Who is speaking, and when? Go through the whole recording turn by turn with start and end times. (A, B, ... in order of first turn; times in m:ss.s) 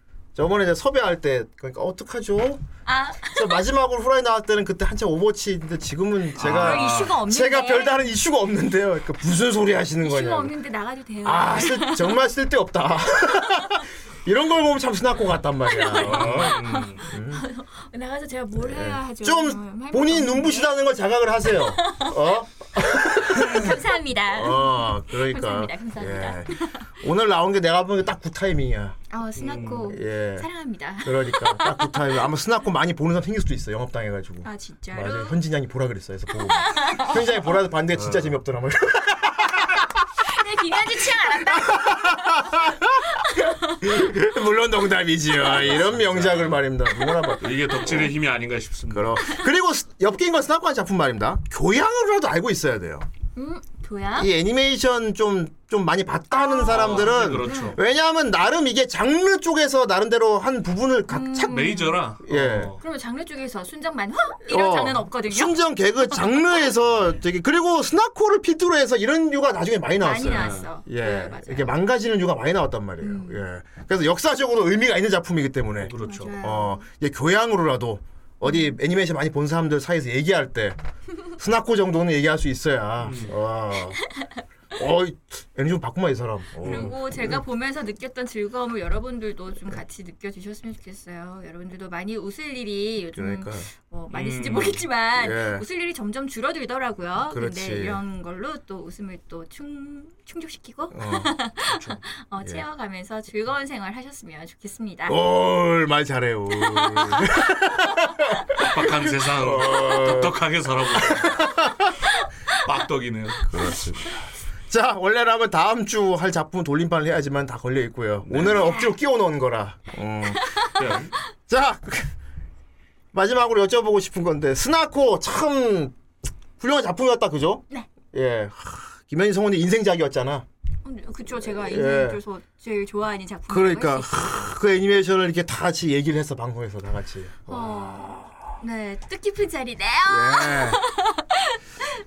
0:00.4-0:02.6 A
0:02.9-0:03.6 B
0:03.3-0:10.5 A
0:06.4-0:07.2 C
0:06.4-0:08.0 B
0:10.0-0:12.2 B
0:11.2-0:17.4 A
0:15.7-0:20.8 B
0:16.0-0:17.0 C
0:18.6-0:23.8 A
0:21.8-0:22.1 B
0:23.2-0:26.8 B
0:24.3-0:29.0 A
0:29.1-0:32.2 B
0:29.4-0:29.9 C
0:29.8-0:30.5 A
0:31.0-0:39.9 A
0:34.4-0:35.4 B
0:36.6-0:37.2 B
0:37.9-0:38.3 C
0:40.2-0:43.8 B
0:41.5-0:43.0 A
0:43.6-0:48.1 A
0:45.6-0:46.6 C
0:47.4-0:49.2 C
0:48.9-0:53.1 A
0:53.4-0:54.3 B
0:54.2-1:01.7 A
0:56.3-0:57.8 B
0:56.7-0:57.8 C
1:01.1-1:02.0 B
1:01.5-1:02.8 C
1:02.2-1:02.8 A
1:02.8-1:05.6 B
1:04.5-1:20.8 A
1:10.0-1:11.8 B
1:10.3-1:10.7 C
1:13.0-1:13.4 B
1:15.8-1:16.4 C
1:16.0-1:16.8 B
1:18.4-1:18.8 B
1:21.4-1:24.0 A
1:23.0-1:23.4 C
1:24.8-1:27.4 A
1:26.6-1:45.3 B
1:26.6-1:26.9 C
1:33.2-1:33.7 A
1:34.1-1:34.8 C
1:35.2-1:35.6 A
1:37.3-1:38.0 A
1:40.9-1:41.3 A
1:41.7-1:42.0 C
1:45.1-1:48.6 A
1:46.6-1:47.4 B
1:48.6-1:51.4 C
1:49.3-1:50.4 A
1:50.9-1:51.9 A
1:52.6-1:53.5 C
1:53.5-2:00.6 A
1:58.2-1:58.7 C
2:00.4-2:00.8 B
2:00.8-2:01.2 C
2:01.5-2:02.1 A
2:03.1-2:06.0 A
2:06.6-2:10.5 A
2:10.8-2:14.5 B
2:11.5-2:12.2 A
2:13.5-2:18.4 A
2:17.5-2:21.6 B
2:20.1-2:20.8 A